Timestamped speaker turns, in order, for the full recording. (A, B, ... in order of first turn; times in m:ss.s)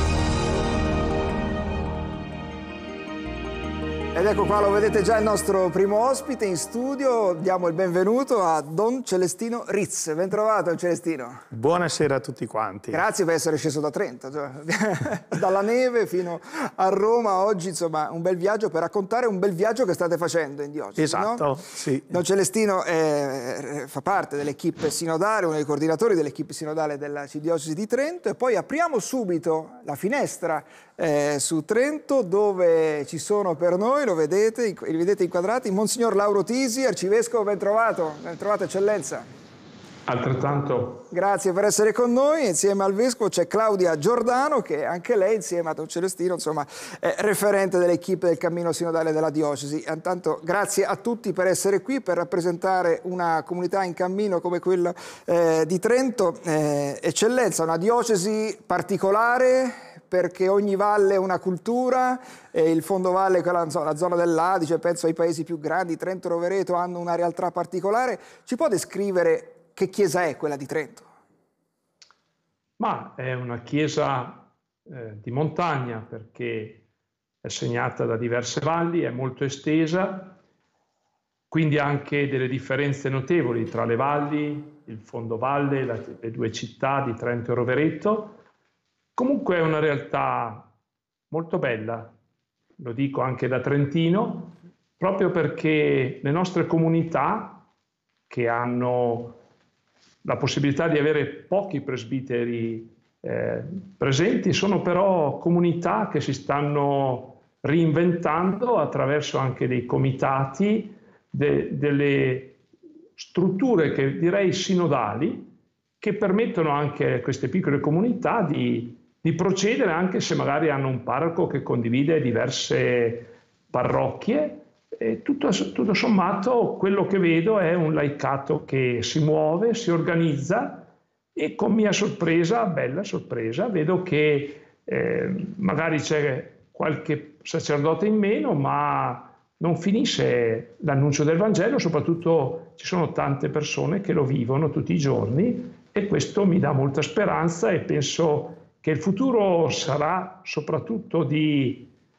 0:04.1-0:11.4 A
0:11.5-0:13.0 B
0:12.9-0:21.4 A
0:21.0-0:22.2 B
0:22.1-0:39.3 A
0:40.1-0:41.0 C
0:41.1-1:11.1 A
1:12.8-1:16.8 C
1:17.4-1:20.4 C
1:21.5-1:28.4 C
1:29.2-1:30.7 C
1:31.3-1:32.1 C
1:32.8-1:37.6 C
1:38.3-1:39.4 C
1:40.2-1:52.6 C
1:53.2-2:31.9 C